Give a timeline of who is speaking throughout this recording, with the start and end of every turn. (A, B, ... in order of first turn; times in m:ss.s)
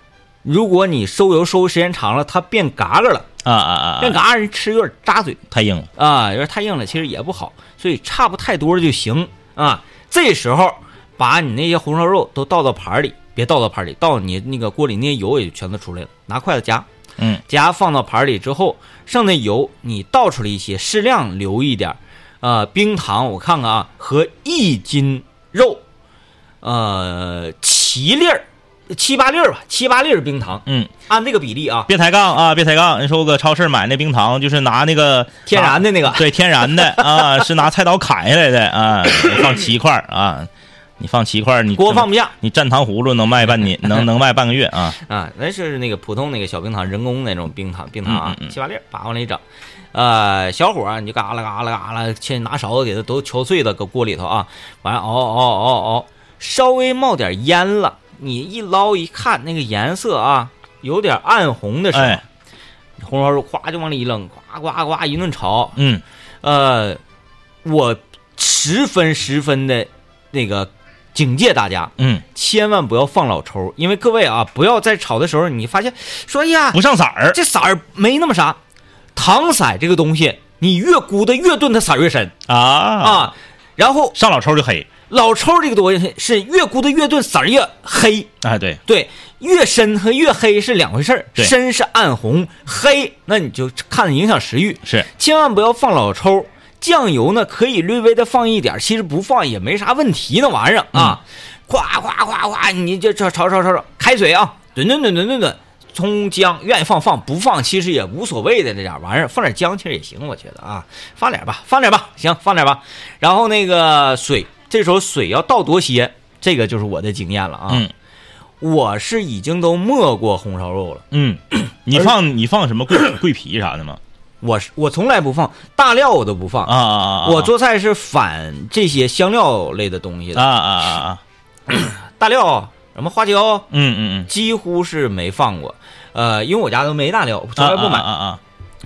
0:00.4-0:03.3 A
0:03.4-0:04.2 B
0:04.0-0:05.4 A
0:05.5-0:05.9 B
0:06.0-0:16.9 A
0:17.5-0:25.8 A
0:26.6-0:31.9 A
0:30.6-0:30.9 B
0:31.9-0:45.0 B
0:35.4-0:37.4 A
0:41.8-0:42.3 A
0:45.0-0:49.4 A
0:48.0-0:48.5 B
0:49.9-1:02.2 A
1:01.9-1:02.2 B
1:03.0-1:05.7 A
1:05.8-1:06.0 B
1:06.4-1:07.0 A
1:07.6-1:18.6 A
1:12.0-1:12.2 B
1:16.7-1:17.4 B
1:19.1-1:22.3 A
1:22.5-1:23.3 B
1:23.0-1:24.1 A
1:24.1-1:24.9 B
1:25.1-1:28.3 A
1:28.4-1:28.8 B
1:28.9-1:57.8 A
1:58.6-2:01.0 A
2:01.1-2:04.0 B
2:04.4-2:10.4 A
2:06.6-2:07.5 B
2:10.3-2:11.2 B
2:11.7-2:13.6 A
2:13.7-2:14.3 B
2:14.3-2:18.0 A
2:17.6-2:18.4 B